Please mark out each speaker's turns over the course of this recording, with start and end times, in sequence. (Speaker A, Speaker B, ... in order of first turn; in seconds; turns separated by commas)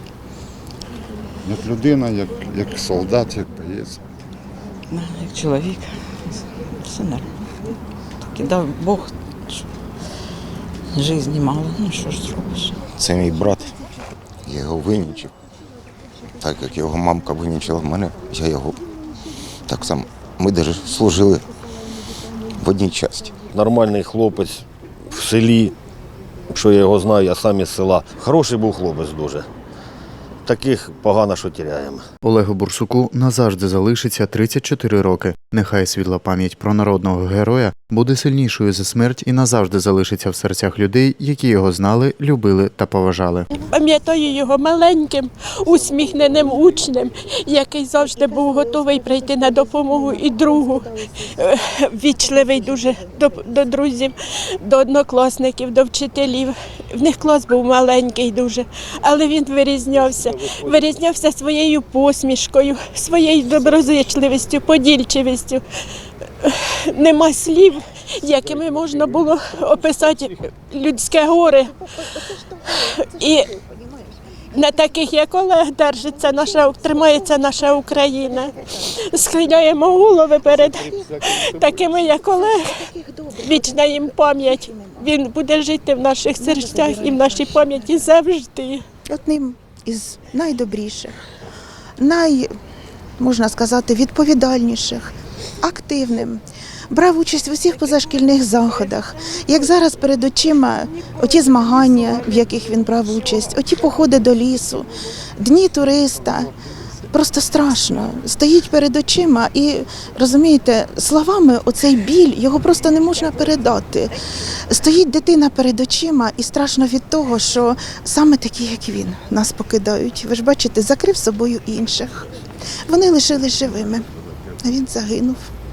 Speaker A: 1.4-4.0, Speaker B: 4.9-7.3, Speaker B: 8.2-9.6, Speaker B: 10.9-12.8, Speaker C: 12.9-13.7, Speaker C: 14.5-15.3, Speaker C: 16.4-18.8, Speaker C: 19.7-21.4, Speaker C: 22.5-23.4, Speaker D: 23.5-25.7, Speaker D: 26.5-29.5, Speaker D: 30.5-32.0, Speaker E: 32.2-43.5, Speaker F: 43.5-65.6, Speaker F: 66.4-71.7, Speaker F: 72.7-73.5, Speaker F: 74.5-88.8, Speaker G: 89.1-91.2, Speaker G: 92.0-92.5, Speaker G: 93.2-106.5, Speaker G: 107.1-114.2, Speaker G: 114.7-122.3, Speaker G: 122.9-124.0, Speaker G: 124.6-125.4